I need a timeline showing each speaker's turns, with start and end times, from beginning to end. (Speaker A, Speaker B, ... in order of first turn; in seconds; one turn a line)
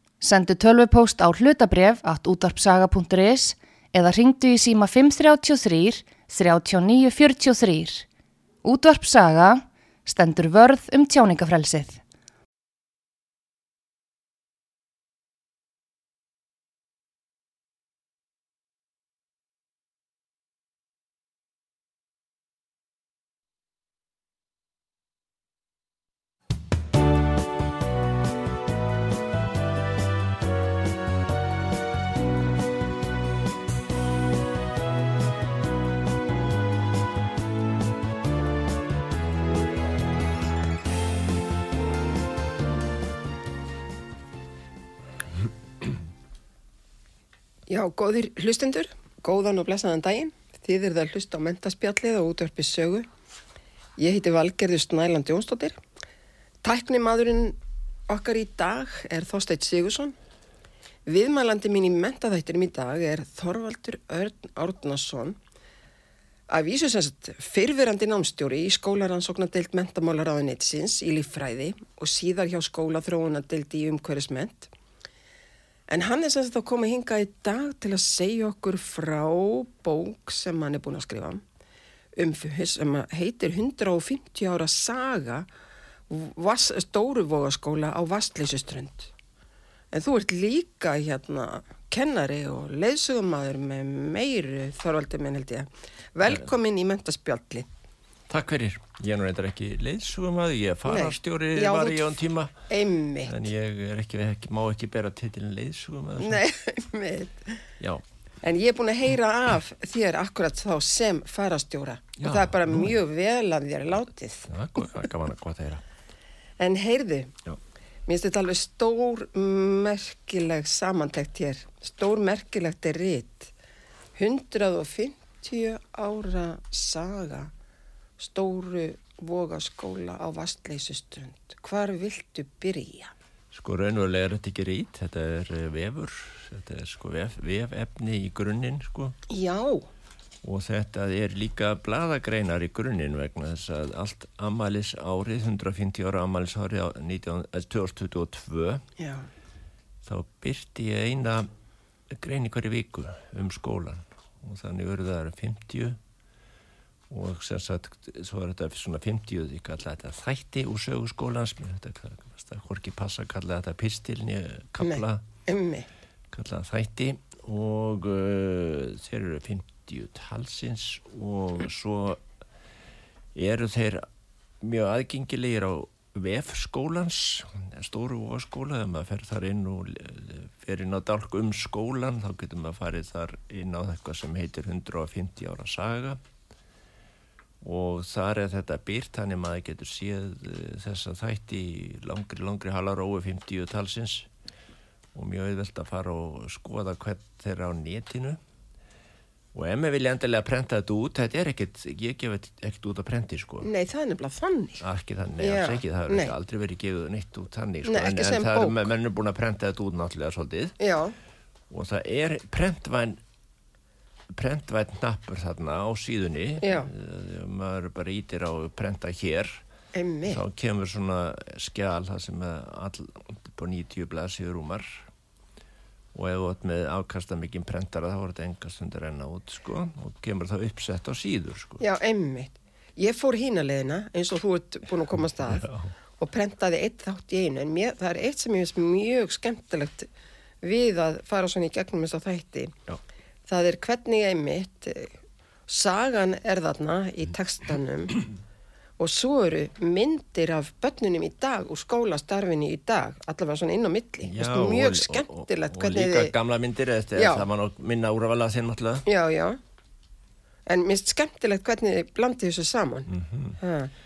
Speaker A: 0.2-8.1
Speaker A: 8.6-12.0
Speaker B: 47.7-53.1
Speaker B: 54.0-55.8
Speaker B: 56.6-57.6
Speaker B: 58.1-60.2
Speaker B: 61.1-65.4
Speaker B: 66.5-74.7
Speaker B: 75.9-81.4
Speaker B: 82.2-85.5
Speaker B: 86.1-89.1
Speaker B: 89.9-97.7
Speaker C: 98.3-102.7
Speaker B: 100.9-102.1
Speaker B: 102.7-103.5
Speaker C: 103.3-106.4
Speaker B: 106.2-107.7
Speaker B: 108.4-114.5
Speaker C: 112.2-113.0
Speaker C: 114.5-115.8
Speaker B: 116.6-117.3
Speaker B: 118.1-123.5
Speaker B: 124.2-127.5
Speaker B: 128.2-133.1
Speaker C: 133.5-139.2
Speaker B: 139.3-139.9
Speaker C: 140.4-148.8
Speaker B: 149.0-149.3
Speaker C: 150.0-151.5
Speaker C: 152.1-156.0
Speaker C: 157.1-165.2
Speaker B: 164.8-165.9
Speaker C: 166.3-172.2
Speaker C: 173.3-174.1
Speaker C: 174.6-186.2
Speaker C: 187.6-194.3
Speaker C: 195.1-198.4
Speaker C: 199.5-203.7
Speaker B: 203.6-204.8
Speaker C: 204.8-210.8
Speaker B: 205.4-206.3
Speaker B: 207.8-208.9
Speaker B: 210.8-211.2
Speaker C: 211.7-213.2
Speaker C: 214.3-219.6
Speaker B: 216.6-216.9
Speaker B: 219.9-220.4
Speaker C: 220.3-225.0
Speaker C: 226.1-231.8
Speaker B: 231.8-240.1
Speaker C: 235.2-235.9
Speaker B: 240.6-242.8
Speaker B: 243.5-245.2
Speaker B: 245.7-248.3
Speaker B: 249.0-256.3
Speaker C: 254.2-259.1
Speaker B: 257.2-257.5
Speaker B: 259.1-259.6
Speaker B: 260.7-263.9
Speaker C: 263.1-263.6